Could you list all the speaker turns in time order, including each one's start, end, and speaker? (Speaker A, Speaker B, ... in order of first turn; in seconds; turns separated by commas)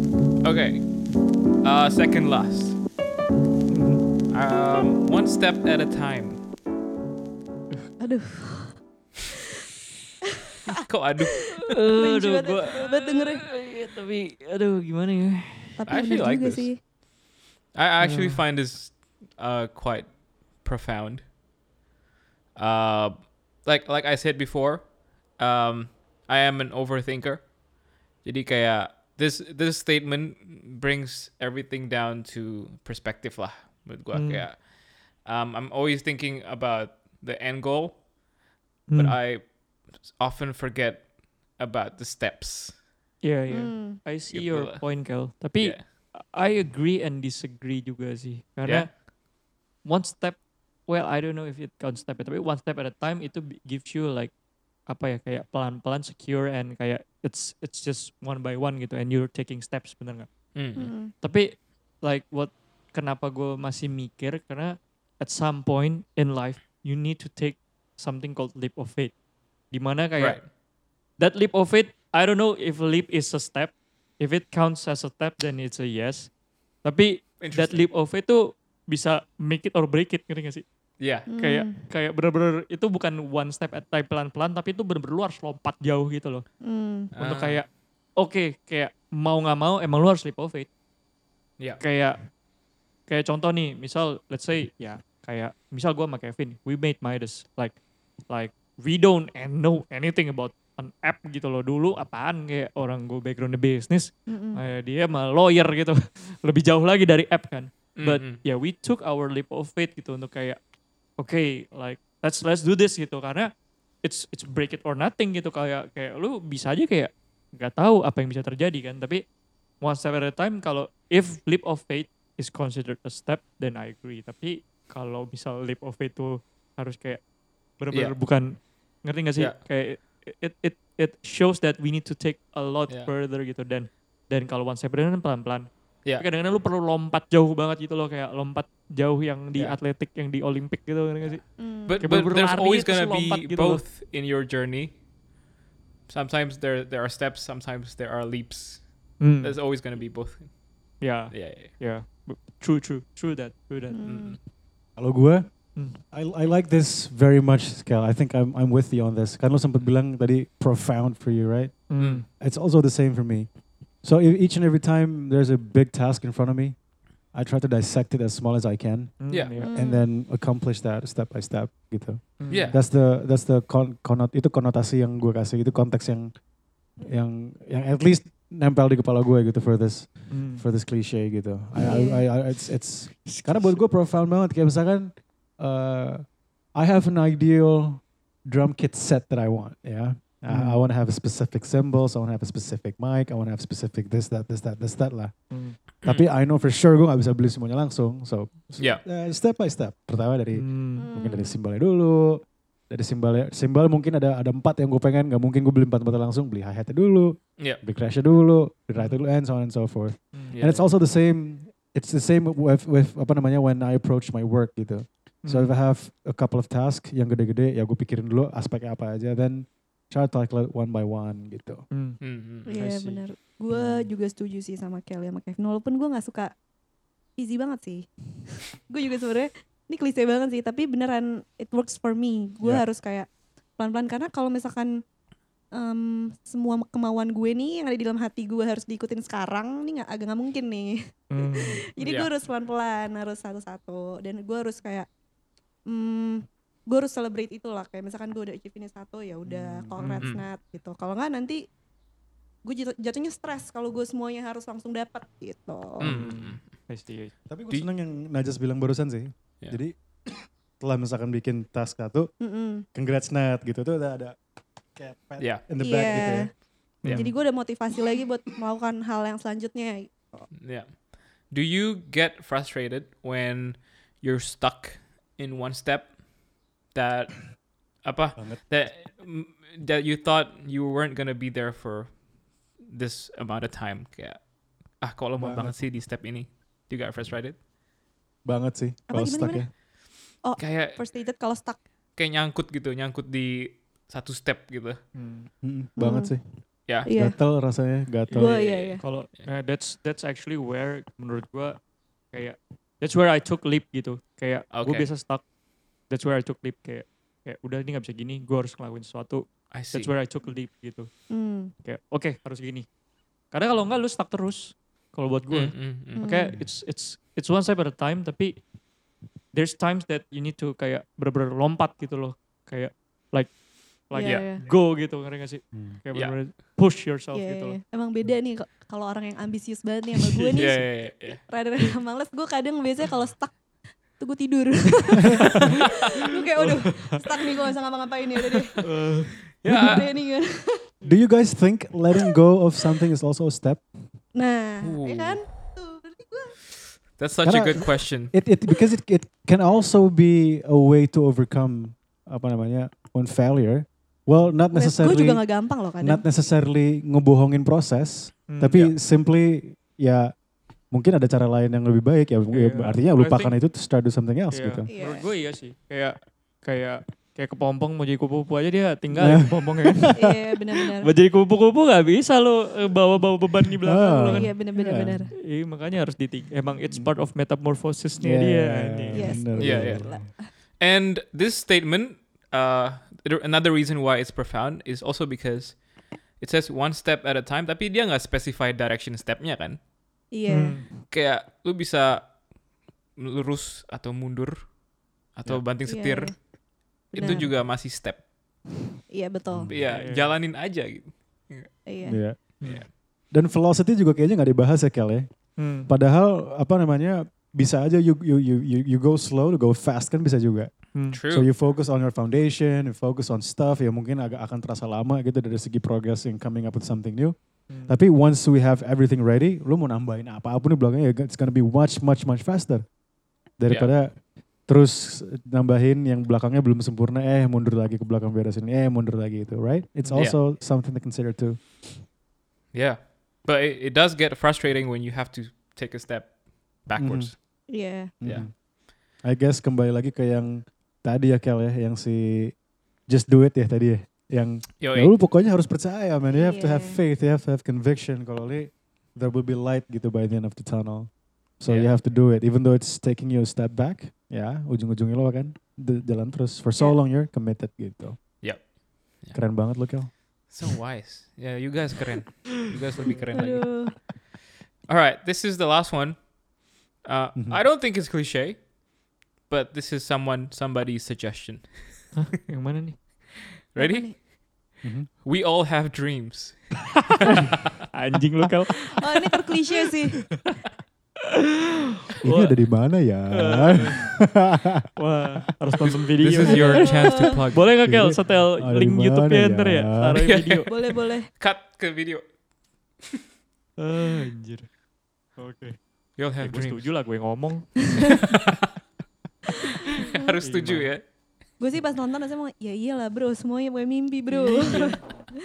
Speaker A: 0.4-1.0, Speaker A: 1.6-2.8, Speaker B: 3.7-4.1, Speaker A: 4.3-6.4, Speaker C: 8.0-9.2, Speaker A: 10.8-11.8, Speaker B: 11.7-15.8, Speaker C: 11.9-13.4, Speaker C: 15.8-16.8, Speaker A: 15.8-16.8, Speaker A: 17.7-21.3, Speaker B: 18.0-18.4, Speaker A: 22.5-27.5, Speaker A: 28.2-38.0, Speaker B: 34.1-34.5, Speaker B: 38.9-39.2, Speaker A: 38.9-42.8, Speaker B: 43.2-49.0, Speaker C: 43.5-44.0, Speaker A: 44.3-45.0, Speaker A: 45.5-45.8, Speaker A: 48.6-48.9, Speaker B: 49.8-54.3, Speaker B: 54.9-60.3, Speaker A: 60.5-60.9, Speaker C: 60.8-61.1, Speaker B: 61.2-61.5, Speaker B: 62.0-69.1, Speaker B: 69.7-70.5, Speaker A: 70.2-70.4, Speaker B: 71.2-76.3, Speaker B: 76.8-80.6, Speaker A: 77.4-77.9, Speaker A: 81.0-81.3, Speaker C: 81.3-81.8, Speaker B: 81.4-86.4, Speaker C: 86.6-87.1, Speaker A: 87.1-87.6, Speaker B: 87.2-90.7, Speaker B: 91.8-92.3, Speaker B: 93.1-110.6, Speaker C: 104.3-104.6, Speaker A: 108.0-108.4, Speaker B: 111.2-113.5, Speaker B: 114.0-119.2, Speaker B: 119.8-127.2, Speaker B: 127.8-141.4, Speaker C: 141.6-142.0, Speaker A: 141.8-145.0, Speaker B: 142.0-143.8, Speaker A: 146.1-150.5, Speaker B: 149.2-149.6, Speaker B: 151.0-154.1, Speaker A: 151.3-151.7, Speaker C: 153.9-154.4, Speaker A: 154.0-154.4, Speaker D: 154.9-163.5, Speaker B: 161.9-162.2, Speaker D: 164.0-166.8, Speaker D: 167.3-176.3, Speaker B: 169.2-169.7, Speaker A: 169.3-169.6, Speaker C: 169.6-170.1, Speaker B: 172.4-172.7, Speaker A: 172.5-172.8, Speaker D: 177.0-186.2, Speaker B: 180.3-180.6, Speaker C: 181.8-182.2, Speaker B: 183.2-183.8, Speaker D: 186.7-195.3, Speaker B: 190.5-190.8, Speaker B: 195.5-195.8, Speaker D: 196.0-221.8, Speaker B: 200.5-201.1, Speaker C: 201.0-201.6, Speaker B: 208.9-209.2, Speaker A: 210.5-210.8, Speaker B: 215.4-215.7, Speaker B: 221.9-222.2, Speaker A: 222.2-222.7, Speaker C: 222.6-226.5, Speaker D: 222.8-223.2, Speaker D: 223.7-224.1, Speaker C: 227.4-228.1, Speaker C: 228.6-234.9, Speaker C: 235.7-245.1, Speaker B: 241.3-241.8, Speaker A: 242.0-242.3, Speaker C: 245.9-251.6, Speaker B: 249.8-250.3, Speaker A: 250.0-250.4, Speaker C: 252.6-256.1, Speaker A: 256.0-256.7, Speaker B: 256.0-257.3, Speaker D: 257.5-259.9, Speaker D: 260.8-262.3, Speaker C: 262.4-262.9, Speaker D: 262.9-264.4, Speaker D: 264.9-266.5, Speaker C: 265.8-266.5, Speaker B: 267.0-267.3, Speaker C: 267.1-270.4, Speaker A: 270.6-276.2, Speaker A: 276.9-282.2, Speaker D: 278.4-278.6, Speaker A: 282.8-287.6, Speaker D: 285.4-285.8, Speaker D: 288.4-289.7, Speaker C: 289.1-289.7, Speaker C: 290.4-291.8, Speaker A: 290.6-291.0, Speaker A: 292.1-295.0, Speaker B: 295.1-295.5, Speaker D: 295.6-296.4, Speaker C: 296.0-296.4, Speaker D: 297.0-298.6, Speaker C: 297.0-297.4, Speaker B: 298.3-301.8, Speaker C: 298.3-299.0, Speaker A: 298.7-299.4, Speaker B: 302.3-305.4, Speaker A: 304.7-305.1, Speaker B: 306.1-311.1, Speaker A: 309.7-310.1, Speaker C: 311.3-311.7, Speaker B: 311.8-312.9, Speaker B: 313.5-318.6, Speaker A: 315.5-316.3, Speaker C: 316.1-316.5, Speaker B: 319.5-323.6, Speaker B: 324.1-327.8, Speaker C: 324.1-324.6, Speaker A: 324.2-324.5, Speaker C: 327.3-338.8, Speaker B: 330.3-330.7, Speaker A: 330.5-331.4, Speaker B: 336.6-337.3, Speaker B: 338.8-339.4, Speaker A: 339.6-340.1, Speaker C: 339.7-340.6, Speaker D: 339.7-340.0, Speaker D: 341.0-343.8, Speaker C: 344.3-346.6, Speaker A: 344.8-345.4, Speaker A: 347.2-348.3, Speaker D: 347.4-360.3, Speaker C: 354.7-356.2, Speaker B: 358.5-358.9, Speaker D: 360.9-364.9, Speaker B: 362.5-363.6, Speaker B: 364.5-379.5, Speaker C: 364.9-365.3, Speaker D: 369.1-370.3, Speaker C: 370.1-371.1, Speaker D: 373.8-375.3, Speaker C: 374.3-375.3, Speaker D: 378.2-380.2, Speaker C: 379.1-380.5, Speaker A: 379.6-380.1, Speaker A: 380.8-389.8, Speaker C: 390.3-390.9, Speaker B: 390.5-390.9, Speaker A: 391.1-392.4, Speaker A: 393.1-394.8, Speaker A: 395.3-396.5, Speaker C: 395.8-396.4, Speaker C: 397.1-397.5, Speaker A: 397.1-398.3, Speaker C: 399.1-399.7, Speaker D: 399.5-399.8, Speaker A: 399.7-401.7, Speaker B: 399.8-400.3, Speaker C: 401.9-402.2, Speaker D: 402.0-405.3, Speaker A: 402.6-402.9, Speaker B: 405.6-405.9, Speaker D: 405.9-417.4, Speaker B: 410.9-411.2, Speaker A: 411.1-411.5, Speaker B: 417.7-418.0, Speaker D: 417.9-422.9, Speaker D: 423.6-431.7, Speaker A: 430.0-430.4, Speaker A: 432.7-437.3, Speaker D: 436.9-437.3, Speaker C: 437.7-438.1, Speaker D: 438.2-438.6, Speaker D: 439.1-458.2, Speaker A: 444.8-445.1, Speaker C: 446.3-447.0, Speaker A: 451.7-451.9, Speaker A: 458.4-459.4, Speaker D: 459.3-460.1, Speaker A: 460.5-463.7, Speaker C: 463.3-463.9, Speaker A: 464.9-466.3, Speaker A: 467.0-468.7, Speaker D: 467.3-467.6, Speaker A: 469.5-472.1, Speaker B: 472.1-473.0, Speaker A: 473.7-474.2, Speaker C: 473.8-474.1, Speaker D: 474.8-475.1, Speaker A: 475.2-477.3, Speaker B: 477.9-479.1, Speaker C: 478.9-480.2, Speaker B: 479.8-480.5, Speaker B: 482.2-482.6, Speaker D: 482.2-484.8, Speaker B: 483.3-484.1, Speaker B: 484.9-490.7, Speaker A: 485.8-487.7, Speaker C: 486.5-487.3, Speaker D: 487.8-490.2, Speaker A: 490.2-492.4, Speaker C: 490.7-491.3, Speaker B: 493.8-494.7, Speaker B: 495.4-495.8, Speaker A: 496.2-496.9, Speaker B: 496.4-498.2, Speaker A: 500.0-501.0, Speaker B: 500.4-500.9, Speaker C: 501.6-505.2, Speaker B: 504.3-505.0